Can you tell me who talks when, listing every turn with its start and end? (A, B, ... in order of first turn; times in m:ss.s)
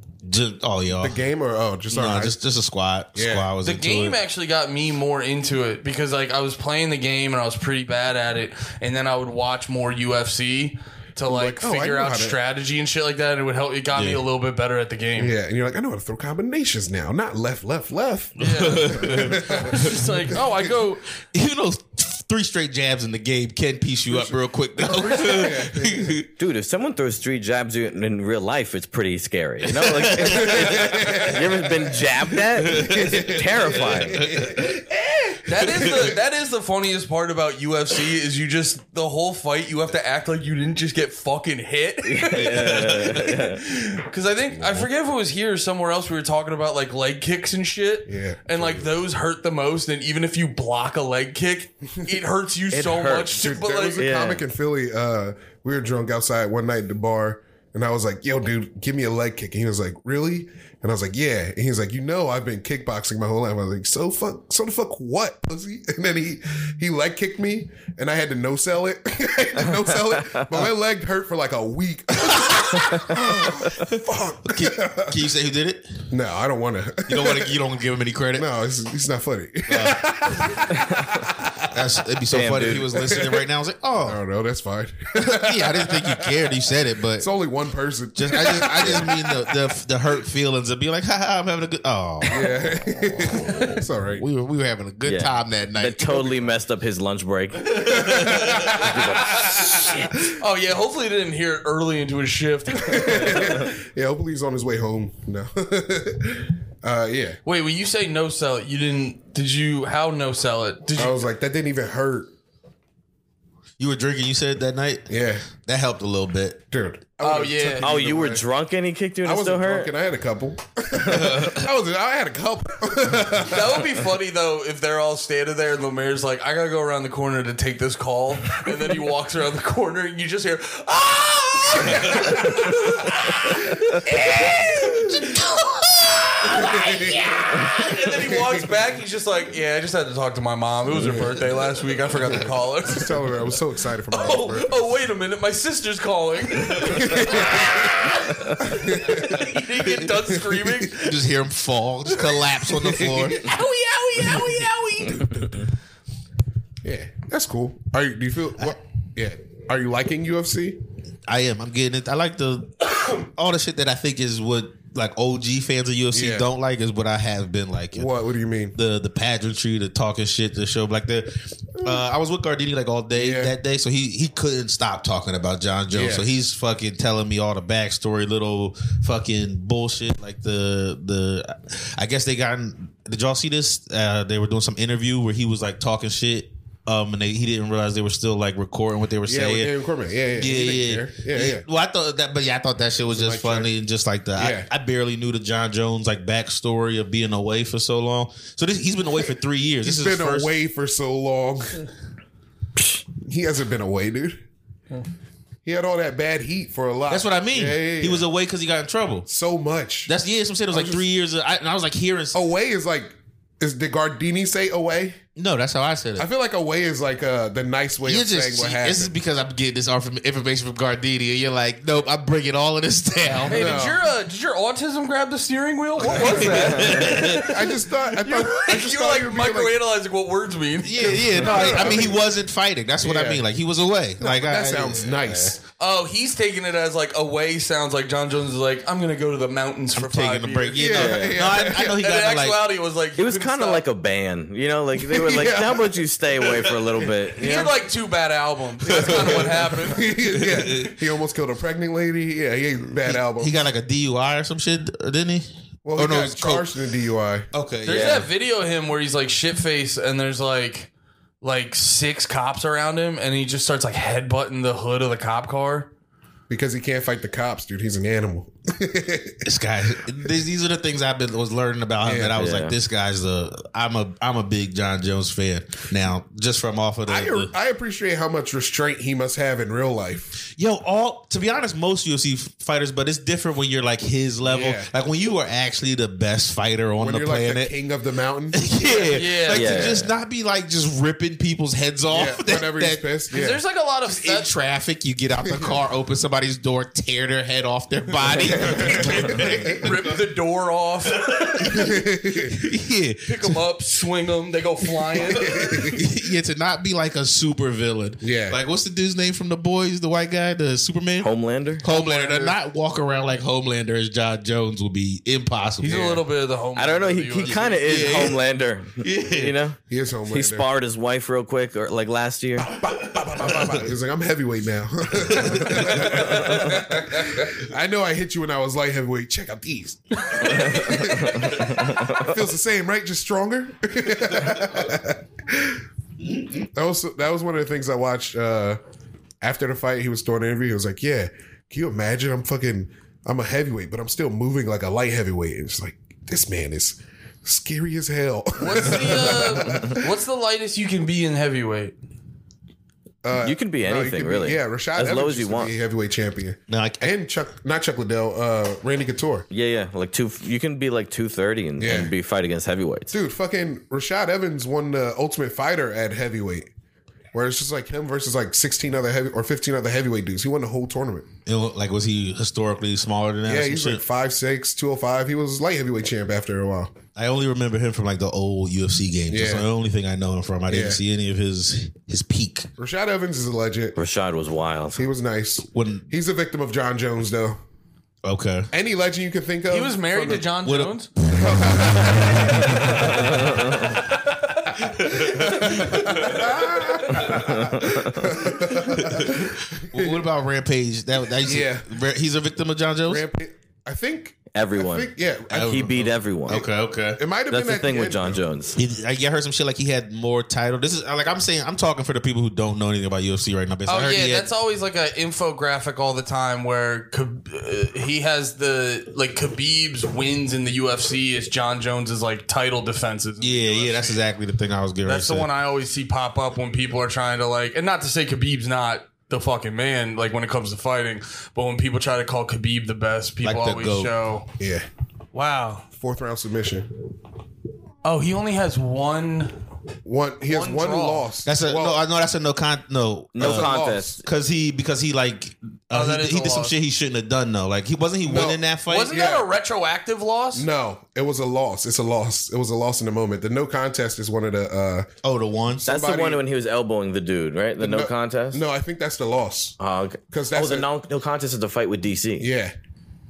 0:00.2-0:01.2 A
0:01.0-0:02.4 B
0:01.9-0:04.2 A
0:03.1-0:03.5 B
0:03.6-0:15.3 C
0:11.2-0:12.4 B
0:13.9-0:14.2 A
0:15.2-0:20.0 B
0:18.4-0:21.1 C
0:18.4-0:20.0 A
0:21.3-0:26.3 A
0:24.1-0:26.2 B
0:26.4-0:34.3 D
0:29.7-0:31.5 A
0:30.2-0:32.0 B
0:32.6-0:33.2 A
0:32.6-0:36.1 B
0:33.8-0:34.8 A
0:35.4-0:54.0 C
0:35.6-0:36.1 A
0:42.0-0:43.6 D
0:42.3-0:43.4 A
0:48.1-0:48.9 B
0:52.7-0:53.4 D
0:53.3-1:15.2 B
0:54.0-0:54.4 D
1:14.4-1:16.0 A
1:16.1-1:17.6 B
1:17.1-1:18.4 A
1:18.3-1:21.6 B
1:19.7-1:20.6 A
1:21.6-1:24.2 A
1:22.3-1:23.0 D
1:23.0-1:23.4 B
1:24.0-1:26.4 B
1:25.1-1:27.3 A
1:27.2-1:29.5 B
1:28.1-1:32.5 A
1:32.3-1:34.2 B
1:33.3-1:36.3 A
1:35.0-1:39.9 D
1:37.7-1:38.8 A
1:37.9-1:40.2 B
1:39.3-1:43.6 C
1:42.8-1:47.4 B
1:47.4-1:51.2 C
1:51.0-1:52.3 B
1:53.8-1:56.6 A
1:55.1-1:55.5 B
1:56.7-1:58.4 B
1:57.2-1:58.0 C
1:57.8-1:59.9 D
1:59.2-2:03.8 B
2:01.0-2:01.4 D
2:01.2-2:01.6 A
2:03.4-2:23.2 C
2:11.9-2:12.7 B
2:16.4-2:17.3 B
2:18.2-2:18.6 B
2:20.9-2:21.3 B
2:22.2-2:24.8 B
2:24.1-2:31.2 C
2:26.8-2:27.9 B
2:28.6-2:29.5 B
2:30.9-2:33.4 A
2:32.7-2:33.5 B
2:33.4-2:35.6 C
2:36.8-2:40.8 B
2:41.3-2:48.1 A
2:46.1-2:46.4 B
2:47.9-2:48.8 B
2:48.7-3:09.7 A
2:53.1-2:53.5 B
2:55.9-2:56.2 B
3:09.2-3:11.6 B
3:10.3-3:20.5 A
3:13.1-3:13.7 B
3:14.4-3:14.7 B
3:19.8-3:21.8 B
3:23.1-3:24.4 B
3:25.6-3:28.2 B
3:27.1-3:29.3 A
3:29.3-3:30.1 B
3:30.1-3:32.4 A
3:30.7-3:31.0 B
3:32.3-3:35.2 B
3:35.4-3:36.3 A
3:36.2-3:39.1 B
3:38.0-3:43.8 A
3:43.5-3:52.1 C
3:43.5-3:44.0 B
3:46.0-3:47.8 A
3:46.0-3:49.8 B
3:50.8-3:55.5 A
3:51.0-3:52.2 B
3:53.0-3:53.4 B
3:54.2-3:55.6 B
3:55.8-4:00.9 C
3:59.9-4:02.6 A
4:00.7-4:02.0 B
4:00.9-4:01.4 D
4:01.6-4:03.8 C
4:03.2-4:07.7 D
4:05.0-4:06.0 B
4:07.4-4:10.1 C
4:08.8-4:13.6 B
4:08.9-4:09.5 A
4:10.2-4:10.9 A
4:13.0-4:16.7 A
4:15.8-4:17.5 B
4:17.5-4:18.3 A
4:17.8-4:20.9 C
4:21.4-4:25.9 C
4:26.5-4:29.4 B
4:29.4-4:37.5 A
4:32.0-4:32.4 B
4:32.4-4:32.8 D
4:37.1-4:40.4 B
4:40.4-4:47.7 A
4:44.4-4:44.9 B
4:47.0-4:48.6 B
4:48.5-4:53.0 A
4:49.0-4:49.9 C
4:49.5-4:50.1 D
4:52.1-4:53.6 B
4:53.3-4:54.5 C
4:54.1-5:00.2 A
4:55.4-4:55.8 B
4:58.5-4:59.8 B
4:58.6-5:01.7 C
5:01.1-5:03.6 A
5:01.6-5:02.6 B
5:03.2-5:05.6 C
5:05.2-5:06.1 B
5:05.3-5:16.2 A
5:08.2-5:08.6 B
5:11.2-5:11.8 D
5:11.8-5:12.5 C
5:15.8-5:18.0 C
5:16.8-5:22.7 D
5:17.5-5:18.4 A
5:19.0-5:19.6 A
5:19.9-5:20.6 B
5:22.6-5:35.8 B
5:23.3-5:23.7 A
5:25.3-5:26.6 A
5:30.4-5:32.1 D
5:36.7-5:38.8 B
5:39.4-5:50.1 B
5:48.6-5:52.0 C
5:53.2-5:59.4 B
5:53.4-5:55.7 D
5:56.7-5:57.1 A
5:59.5-6:03.1 D
6:01.8-6:02.1 B
6:03.1-6:06.7 B
6:07.3-6:11.3 B
6:11.4-6:14.0 A
6:13.4-6:16.9 B
6:17.2-6:22.7 A
6:19.3-6:19.6 B
6:20.7-6:21.0 B
6:22.8-6:24.0 B
6:24.0-6:25.0 D
6:25.0-6:27.6 B
6:25.7-6:26.1 A
6:28.2-6:28.7 A
6:28.7-6:30.4 B
6:29.7-6:31.1 C
6:30.6-6:31.9 A
6:31.2-6:33.7 B
6:34.8-6:37.5 A
6:34.8-6:40.2 B
6:37.3-6:38.3 D
6:38.4-6:43.2 A
6:41.4-6:41.9 B
6:43.1-6:45.8 B
6:44.5-6:46.6 D
6:45.5-6:47.2 A
6:46.5-6:48.4 B
6:47.5-6:48.8 D
6:48.8-6:54.5 A
6:53.9-7:04.2 C
7:03.4-7:05.5 A
7:05.0-7:14.5 C
7:13.4-7:14.1 A
7:14.6-7:14.8 B
7:15.3-7:15.8 C
7:16.0-7:16.9 B
7:18.0-7:19.6 C
7:20.0-7:22.0 B
7:20.5-7:21.2 C
7:21.4-7:29.2 A
7:23.3-7:24.2 D
7:23.4-7:24.2 B
7:25.9-7:26.7 C
7:28.2-7:29.5 B
7:28.9-7:30.6 C
7:30.5-7:35.1 B
7:35.2-7:35.8 A
7:35.8-7:36.4 B
7:35.8-7:38.6 D
7:37.8-7:39.8 B
7:39.8-7:42.5 D
7:40.3-7:40.9 B
7:42.4-7:42.7 B